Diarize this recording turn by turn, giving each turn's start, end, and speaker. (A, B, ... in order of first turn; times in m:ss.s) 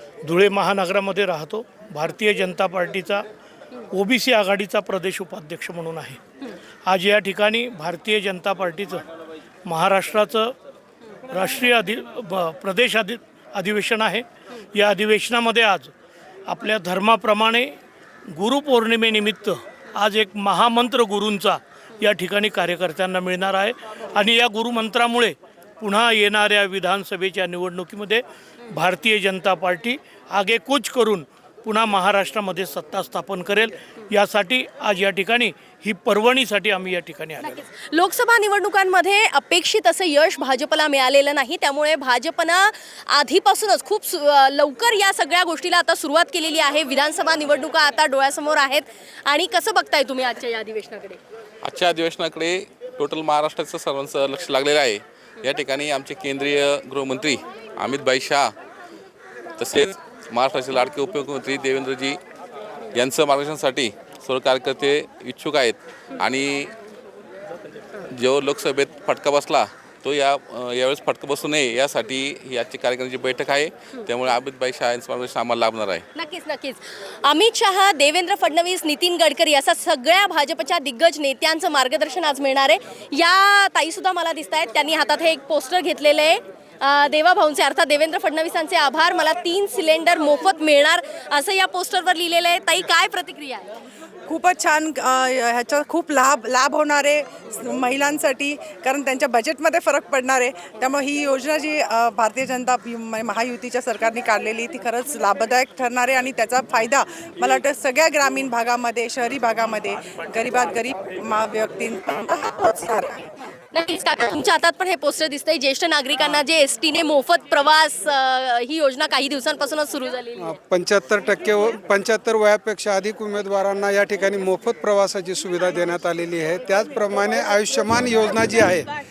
0:00.2-0:03.2 A
0:03.9-0:06.2 A
0:06.8-0:09.0 A
0:09.6-0:10.5 A
0:11.3-0:15.9 A
0:16.5-0:17.7 A
0:18.3-0:37.6 A
0:37.6-0:51.2 B
0:51.6-0:58.5 C
0:59.6-1:02.2 C
1:02.9-1:06.7 C
1:08.1-1:16.0 C
1:16.1-1:33.7 B
1:34.3-1:53.3 D
1:53.7-2:00.6 B
2:00.4-2:08.8 E